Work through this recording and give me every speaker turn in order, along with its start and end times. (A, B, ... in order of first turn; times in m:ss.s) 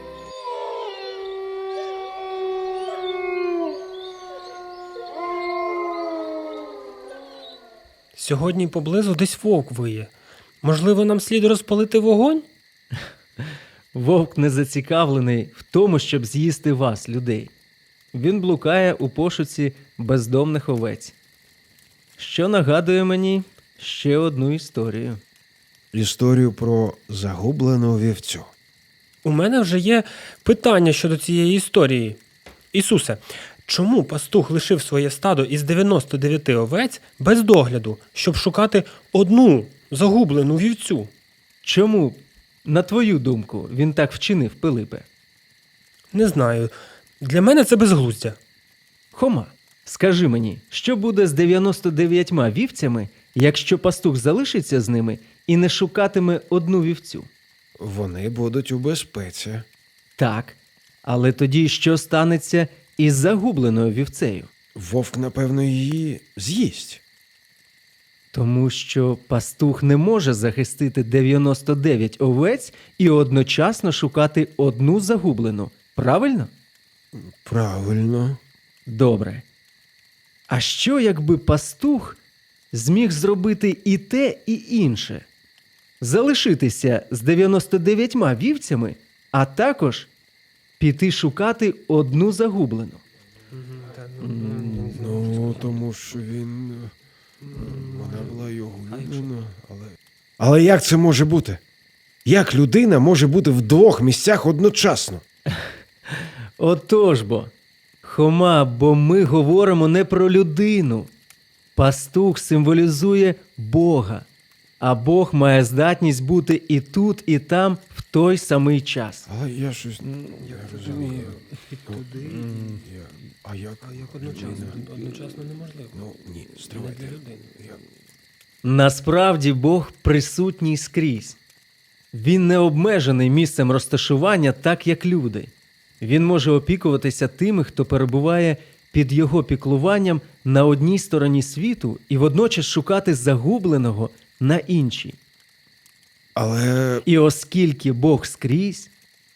0:08.1-0:12.4 A
0:13.9-0:17.5 B
0:18.1-0:21.1 B
0:22.2-0:25.2 B
0:25.9-0:28.5 C
0:29.2-0:32.2 A
0:32.7-0:41.1 A
0:41.6-0:45.0 B
0:46.1-0:48.4 A
0:49.1-0:57.3 B
0:57.8-0:59.6 C
1:00.2-1:04.5 B
1:04.8-1:07.0 C
1:08.3-1:16.5 B
1:17.1-1:18.4 C
1:18.8-1:19.4 B
1:20.5-1:22.2 B
1:22.7-1:25.2 B
1:26.0-1:30.1 B
1:30.8-1:33.0 B
1:33.5-1:35.8 A
1:34.2-1:34.9 B
1:34.9-1:36.9 C
1:37.4-1:38.4 A
1:37.5-1:41.6 C
1:38.9-1:39.3 A
1:42.2-1:45.2 C
1:46.1-1:47.5 B
1:48.0-1:51.1 B
1:51.7-1:54.3 B
1:54.8-1:59.3 B
1:59.3-2:04.9 C
2:00.4-2:02.8 A
2:03.8-2:06.0 A
2:05.9-2:07.8 C
2:06.7-2:07.6 A
2:08.6-2:11.4 B
2:12.1-2:25.2 B
2:26.3-2:27.0 C
2:27.0-2:28.9 B